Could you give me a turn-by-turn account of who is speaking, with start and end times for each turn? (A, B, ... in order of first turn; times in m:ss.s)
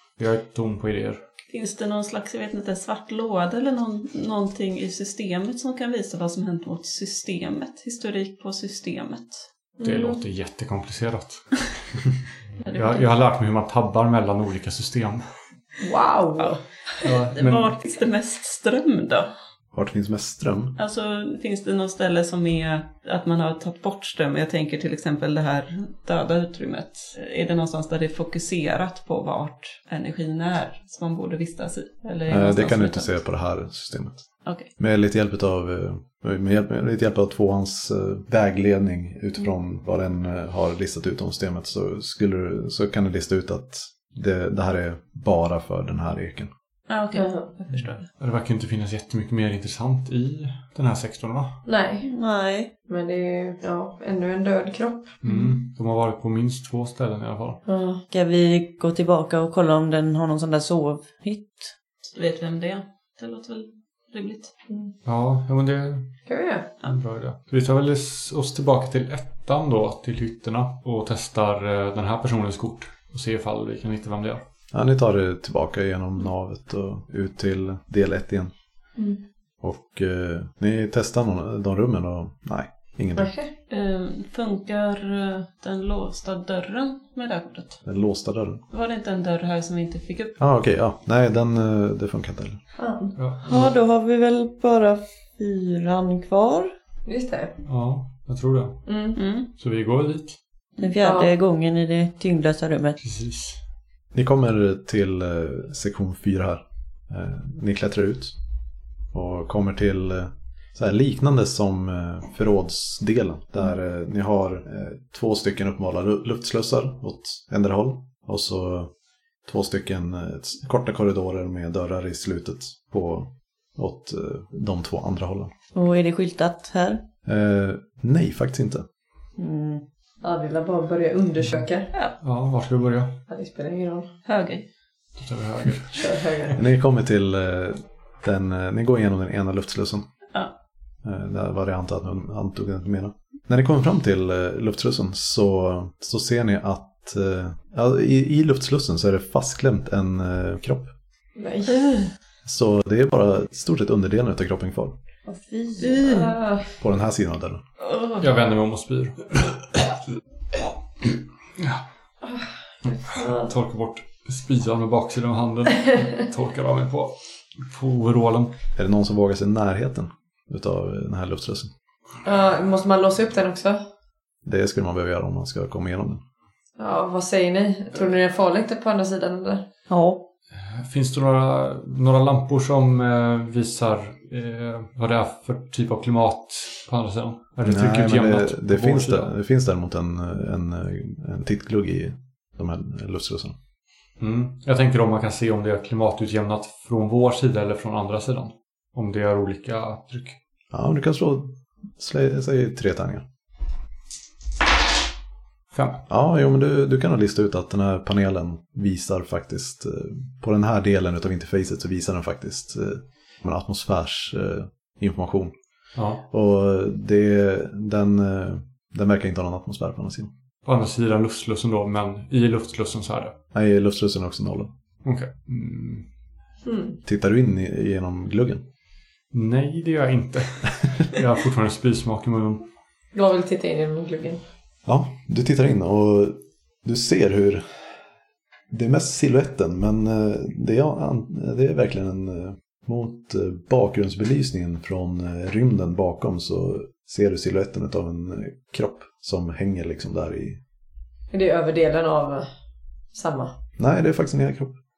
0:00.2-0:01.2 A
0:01.5-0:09.4 B
0:09.8-0:10.2 C
0:09.8-0:11.5 A
0:12.6-0:13.0 B
0:12.6-0:15.3 A
0:15.8-0:16.6 C
0:17.0-0:17.7 A
0:17.0-0:19.3 B
0:19.7-0:20.8 D
0:20.8-0:33.1 B
0:32.3-0:34.2 D
0:34.8-0:46.5 D
0:46.9-0:48.0 B
0:47.1-0:47.5 C
0:47.7-0:51.6 A
0:51.6-0:52.1 C
0:52.0-0:52.7 E
0:52.9-0:55.2 C
0:55.2-0:57.6 A
0:55.2-0:55.5 B
0:57.6-0:58.0 C
0:58.1-1:01.7 E
1:02.1-1:04.5 B
1:04.7-1:04.9 C
1:05.0-1:06.1 A
1:06.3-1:06.7 C
1:06.8-1:14.4 A
1:14.7-1:18.5 D
1:19.6-1:23.3 D
1:23.2-1:23.5 C
1:23.7-1:27.8 B
1:27.8-1:28.6 D
1:28.7-1:30.4 B
1:30.4-1:32.6 D
1:32.8-1:33.2 C
1:33.2-1:33.7 A
1:33.4-1:36.7 E
1:37.0-1:37.6 C
1:37.6-1:38.9 A
1:38.8-1:39.2 C
1:39.2-1:39.5 B
1:39.5-1:40.4 A
1:40.8-1:43.0 E
1:40.8-1:41.3 C
1:43.0-1:43.6 A
1:44.1-1:48.3 D
1:49.1-1:58.9 D
1:59.4-2:05.5 D
2:05.7-2:07.0 E
2:07.2-2:08.8 D
2:09.4-2:09.8 E
2:10.2-2:11.9 C
2:12.2-2:13.2 A
2:13.3-2:14.1 C
2:14.2-2:14.7 B
2:15.2-2:16.2 A
2:15.9-2:16.6 C
2:16.6-2:20.0 D
2:21.0-2:30.9 D
2:31.4-2:31.9 C
2:31.7-2:32.1 B
2:32.4-2:34.9 D
2:35.3-2:36.1 E
2:35.8-2:36.3 B
2:35.9-2:36.7 C
2:36.8-2:37.6 D
2:37.8-2:38.2 B
2:38.2-2:40.0 A
2:41.0-2:41.8 A
2:42.8-2:43.5 C
2:43.0-2:48.5 A
2:48.8-2:51.7 D
2:52.2-2:53.8 C
2:54.4-2:56.2 D
2:56.8-2:59.6 C
2:59.9-3:00.3 E
3:00.5-3:09.3 A
3:07.6-3:13.6 D
3:14.2-3:20.4 A
3:20.7-3:23.2 D
3:25.7-3:26.0 A
3:26.1-3:35.5 D
3:36.0-3:36.2 A
3:36.3-3:40.3 D
3:40.6-3:43.4 A
3:43.5-3:44.7 D
3:45.0-3:46.1 A
3:46.6-3:47.0 C
3:47.0-3:48.6 D
3:49.3-3:52.6 A
3:53.1-3:54.4 C
3:54.8-3:57.6 D
3:58.7-4:10.6 D
4:11.3-4:12.5 C
4:13.1-4:13.5 C
4:13.8-4:14.7 D